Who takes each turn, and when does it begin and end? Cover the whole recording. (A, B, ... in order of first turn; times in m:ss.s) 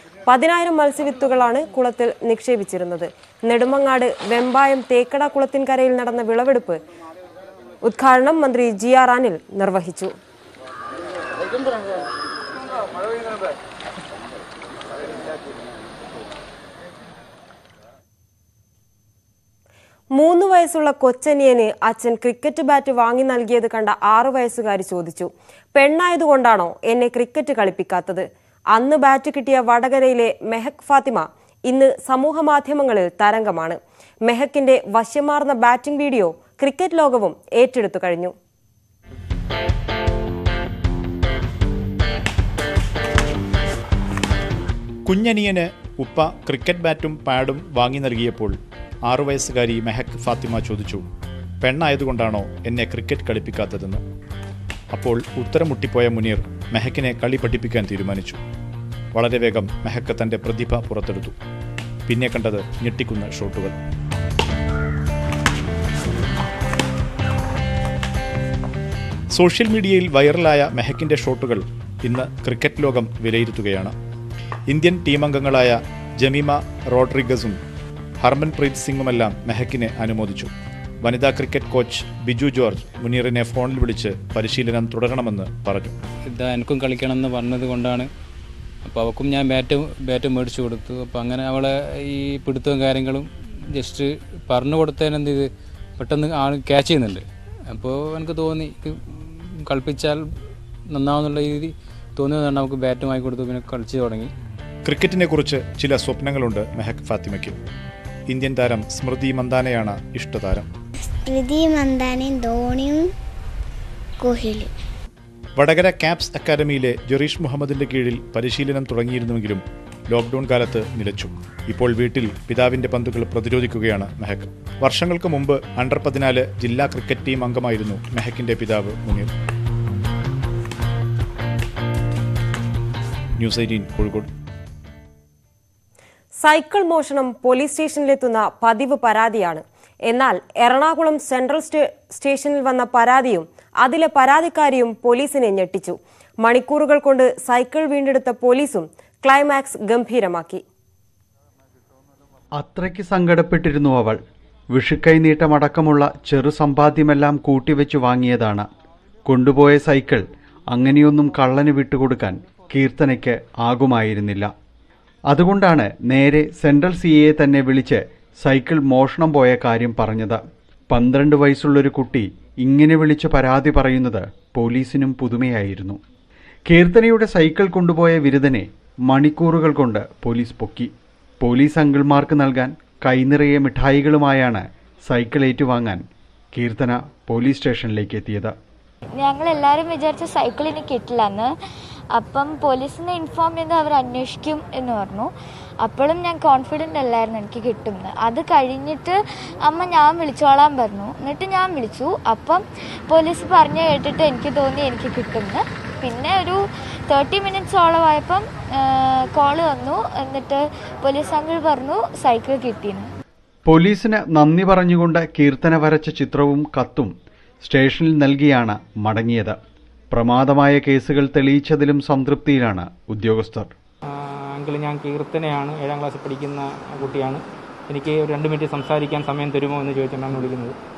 0:00.3-0:06.8 A
0:07.8-0:10.1 A
0:20.2-0:38.3 A
0:45.1-0:51.0 B
0:51.6-0:54.0 B
0:54.9-0:58.4 B
0:59.2-1:01.4 B
1:02.1-1:03.8 B
1:09.3-1:13.9 B
1:14.7-1:17.6 B
1:18.2-1:20.5 B
1:21.0-1:26.0 B
1:26.3-1:28.1 C
1:28.9-1:35.5 C
1:36.0-1:40.2 C
1:40.9-1:44.3 C
1:44.9-1:47.6 B
1:48.3-1:50.7 B
1:51.1-1:53.0 D
1:54.2-1:54.7 D
1:55.6-2:09.3 B
2:13.4-2:14.3 B
2:16.4-2:30.6 A
2:32.6-2:34.2 E
2:34.7-2:38.7 E
2:39.3-2:44.5 E
2:45.3-2:56.0 E
2:56.7-3:00.9 E
3:01.4-3:06.0 E
3:06.6-3:08.5 E
3:09.2-3:11.5 F
3:12.1-3:15.3 F
3:15.8-3:33.1 F
3:33.7-3:37.1 E
3:37.6-3:39.6 E
3:40.1-3:43.7 E
3:44.6-3:47.4 G
3:47.9-3:50.7 G